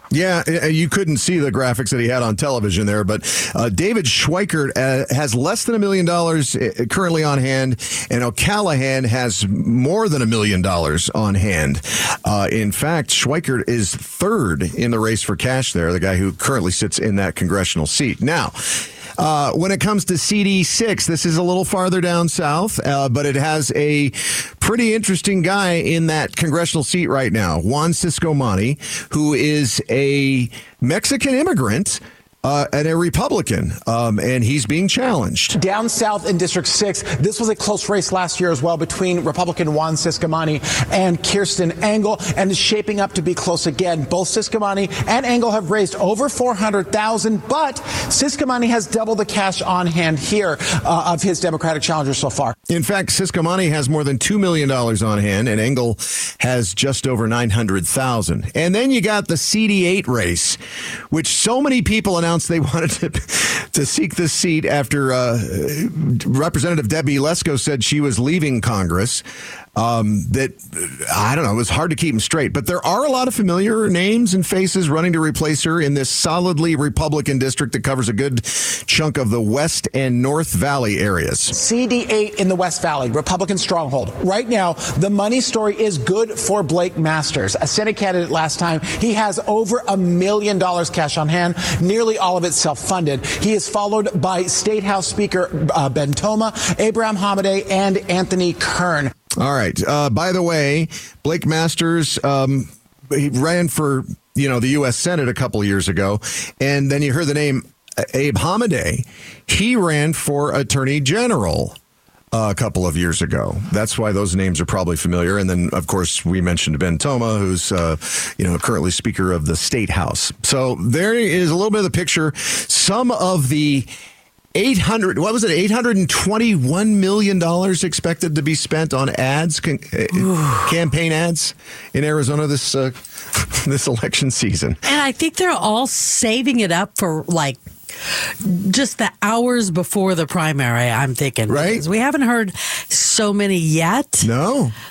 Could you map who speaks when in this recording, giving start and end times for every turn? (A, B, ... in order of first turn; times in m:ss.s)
0:00.1-0:35.6 A
0:35.6-0:52.6 B
0:52.7-1:00.6 A
1:01.1-1:09.2 A
1:09.8-1:21.6 A
1:21.5-1:39.1 B
1:39.4-1:51.8 A
1:52.3-2:03.9 A
2:04.6-2:14.8 A
2:10.3-2:10.7 C
2:14.8-2:24.3 C
2:21.5-2:21.8 A
2:24.2-2:24.7 A